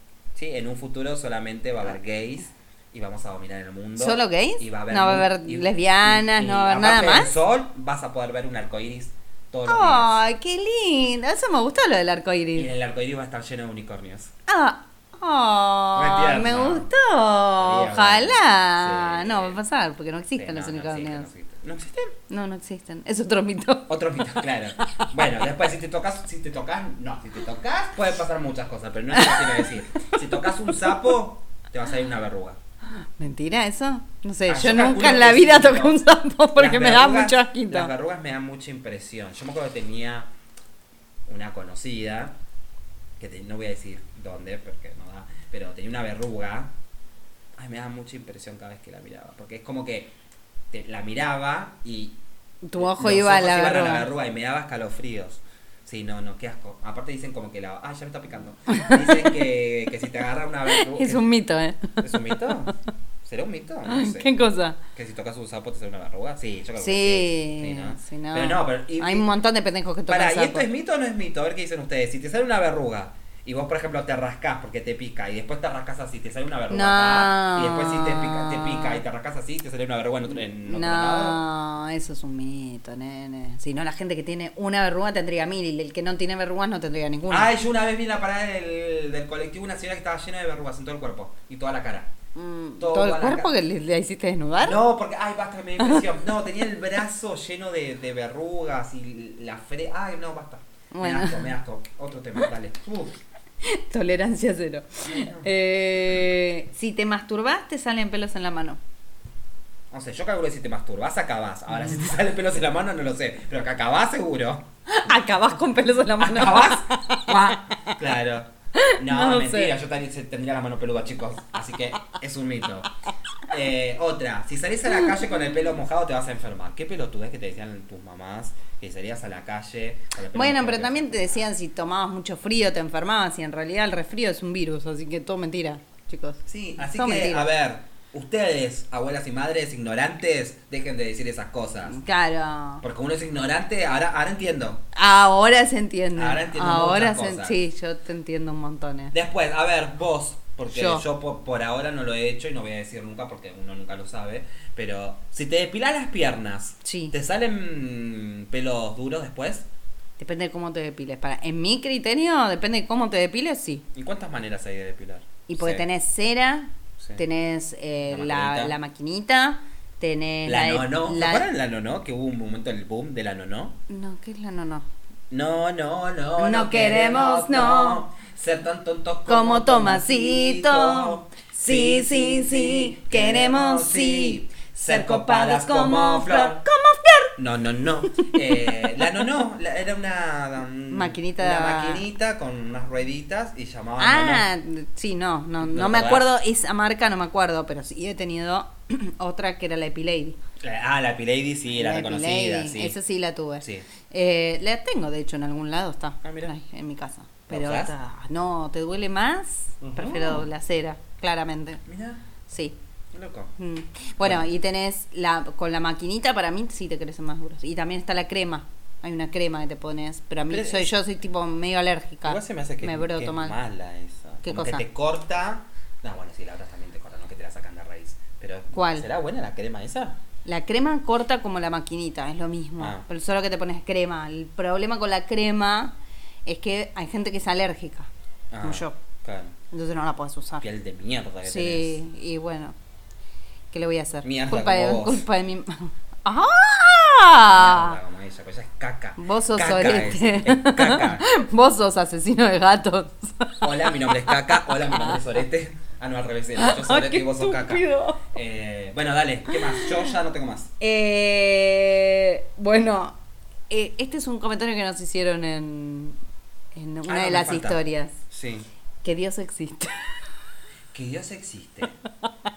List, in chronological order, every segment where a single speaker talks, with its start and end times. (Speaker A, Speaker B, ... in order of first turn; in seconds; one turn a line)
Speaker A: 0.3-10.2
Speaker B: 4.0-7.3
Speaker B: 9.7-12.7
Speaker A: 12.6-14.3
Speaker B: 14.5-21.3
Speaker A: 15.9-16.9
Speaker A: 17.6-19.6
Speaker A: 20.4-22.1
Speaker B: 22.3-24.4
Speaker A: 23.9-32.6
Speaker B: 29.1-31.1
Speaker B: 33.2-37.9
Speaker A: 34.5-36.0
Speaker A: 36.6-40.3
Speaker A: 41.3-42.4
Speaker A: 43.2-46.7
Speaker A: 47.6-50.1
Speaker A: 50.7-52.2
Speaker B: 52.6-54.1
Speaker A: 52.8-61.2
Speaker B: 58.7-59.3
Speaker B: 60.7-62.7
Speaker A: 62.0-62.7
Speaker A: 63.2-64.3
Speaker B: 63.9-64.8
Speaker A: 64.9-69.3
Speaker B: 66.8-70.7
Speaker A: 70.1-81.4
Speaker B: 76.7-79.0
Speaker B: 80.6-87.5
Speaker A: 87.3-92.1
Speaker B: 92.3-94.8
Speaker A: 92.8-93.5
Speaker A: 94.6-103.2
Speaker B: 95.8-96.0
Speaker B: 100.9-101.5
Speaker B: 103.6-108.8
Speaker A: 105.1-105.5
Speaker A: 109.9-114.7
Speaker B: 114.9-118.0
Speaker A: 116.2-122.9
Speaker B: 118.8-119.7
Speaker A: 123.5-131.4
Speaker B: 130.3-137.5
Speaker A: 136.5-142.0
Speaker B: 141.9-142.8
Speaker A: 142.8-144.8
Speaker B: 144.9-149.1
Speaker A: 146.2-147.6
Speaker A: 149.1-159.7
Speaker B: 150.7-151.1
Speaker B: 156.8-157.2
Speaker B: 160.2-163.8
Speaker A: 163.9-165.8
Speaker B: 165.5-171.5
Speaker A: 168.1-168.7
Speaker A: 170.4-173.8
Speaker B: 173.9-174.9
Speaker A: 175.3-186.6
Speaker B: 176.4-178.1
Speaker B: 179.3-187.3
Speaker A: 187.4-194.5
Speaker B: 188.1-189.2
Speaker B: 190.9-192.0
Speaker B: 194.0-200.4
Speaker A: 195.6-196.3
Speaker A: 200.6-203.0
Speaker B: 201.7-211.8
Speaker A: 203.6-203.9
Speaker A: 206.2-206.5
Speaker A: 207.5-207.9
Speaker A: 209.8-210.5
Speaker A: 211.9-212.2
Speaker B: 212.5-212.8
Speaker A: 213.1-213.5
Speaker B: 213.6-223.6
Speaker A: 220.5-220.9
Speaker A: 222.3-230.2
Speaker B: 224.4-224.8
Speaker B: 228.7-229.1
Speaker B: 230.4-235.9
Speaker B: 236.5-238.1
Speaker A: 238.5-239.6
Speaker B: 238.6-239.0
Speaker B: 239.7-240.7
Speaker A: 240.6-242.0
Speaker B: 241.4-242.8
Speaker B: 243.7-248.0
Speaker A: 244.2-245.2
Speaker A: 247.5-251.2
Speaker B: 249.2-255.2
Speaker A: 253.6-260.7
Speaker B: 256.6-258.3
Speaker B: 259.5-260.0
Speaker B: 260.8-263.2
Speaker B: 263.7-266.2
Speaker B: 266.8-268.2
Speaker A: 267.1-267.8
Speaker A: 268.3-268.7
Speaker B: 269.0-270.2
Speaker A: 270.9-271.9